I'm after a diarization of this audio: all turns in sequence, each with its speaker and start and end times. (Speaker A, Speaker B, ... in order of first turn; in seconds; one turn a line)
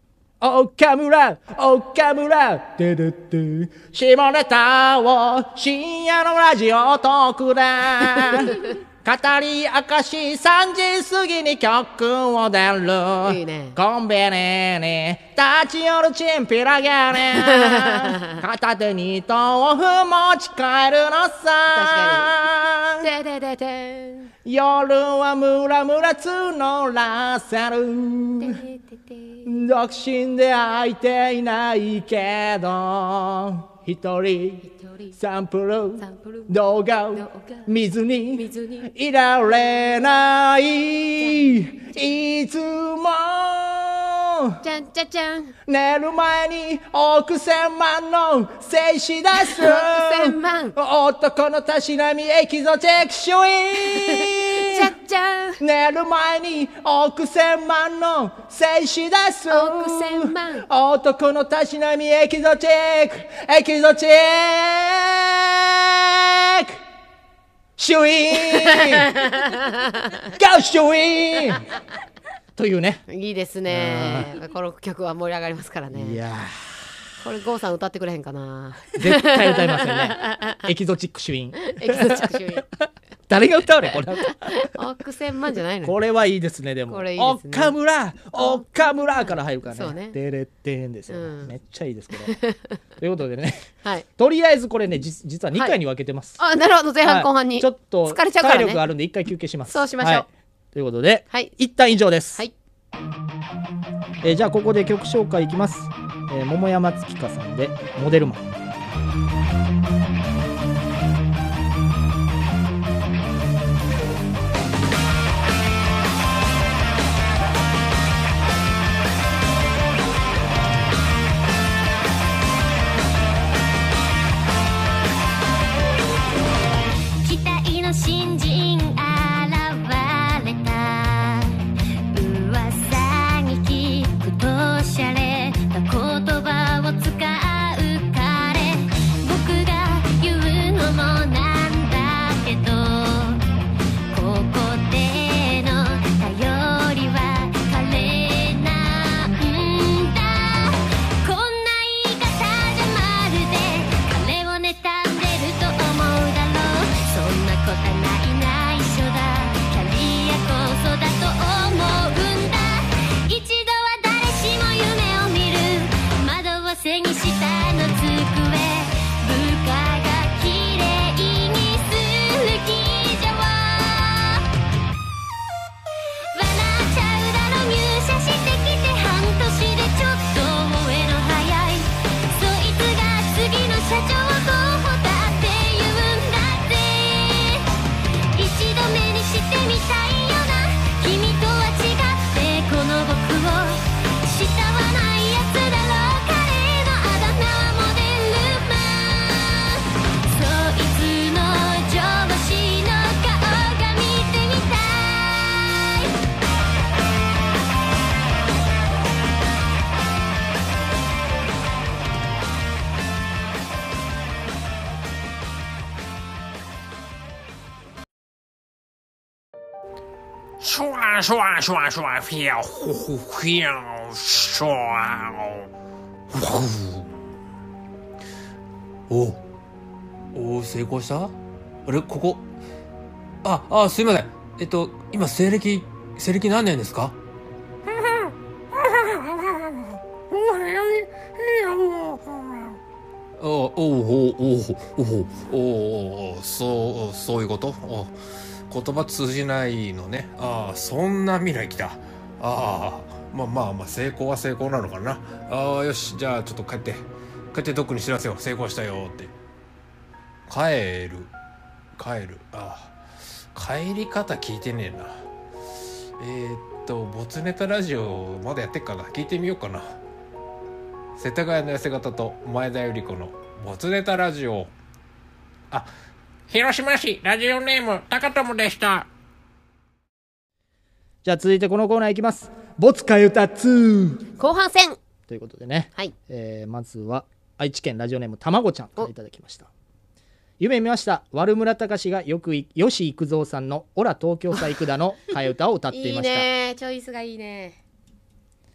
Speaker A: 0.4-23.1
Speaker B: 13.2-13.8
Speaker B: 17.4-18.3
Speaker B: 21.7-22.3
Speaker B: 23.0-24.3
Speaker A: 24.4-28.6
Speaker B: 28.4-29.5
Speaker A: 29.4-34.6
Speaker B: 34.6-35.1
Speaker A: 35.2-44.6
Speaker B: 36.0-36.5
Speaker B: 37.1-37.7
Speaker B: 38.4-38.9
Speaker B: 41.2-41.6
Speaker B: 44.6-45.5
Speaker A: 45.7-54.9
Speaker B: 49.4-50.7
Speaker B: 54.0-55.6
Speaker A: 55.6-66.8
Speaker B: 59.5-60.6
Speaker A: 67.8-69.1
Speaker B: 68.5-70.2
Speaker A: 70.3-71.7
Speaker A: 72.6-73.0
Speaker B: 73.1-76.2
Speaker A: 73.7-74.3
Speaker A: 75.9-76.8
Speaker B: 77.2-80.6
Speaker A: 79.0-84.7
Speaker B: 81.6-82.7
Speaker B: 84.4-86.0
Speaker A: 85.8-92.3
Speaker B: 86.9-87.8
Speaker B: 88.3-90.2
Speaker B: 91.1-91.5
Speaker B: 92.2-92.6
Speaker A: 93.0-96.4
Speaker B: 96.4-98.8
Speaker A: 97.0-102.4
Speaker B: 99.7-100.2
Speaker A: 104.2-108.5
Speaker C: 127.2-131.6
Speaker C: 132.1-143.4
Speaker C: 144.1-174.4
Speaker C: 176.3-187.7
Speaker C: 188.3-206.1
Speaker D: 220.6-225.7
Speaker E: 226.3-227.1
Speaker E: 229.1-229.4
Speaker E: 230.3-232.5
Speaker E: 233.4-237.2
Speaker E: 240.3-242.7
Speaker E: 243.4-248.2
Speaker E: 248.7-259.3
Speaker E: 260.5-261.3
Speaker E: 261.9-262.9
Speaker E: 263.5-265.2
Speaker E: 266.2-270.0
Speaker E: 271.1-274.7
Speaker D: 276.5-279.1
Speaker A: 281.2-284.3
Speaker B: 284.4-285.0
Speaker A: 285.3-289.7
Speaker A: 290.6-296.5
Speaker B: 295.9-297.8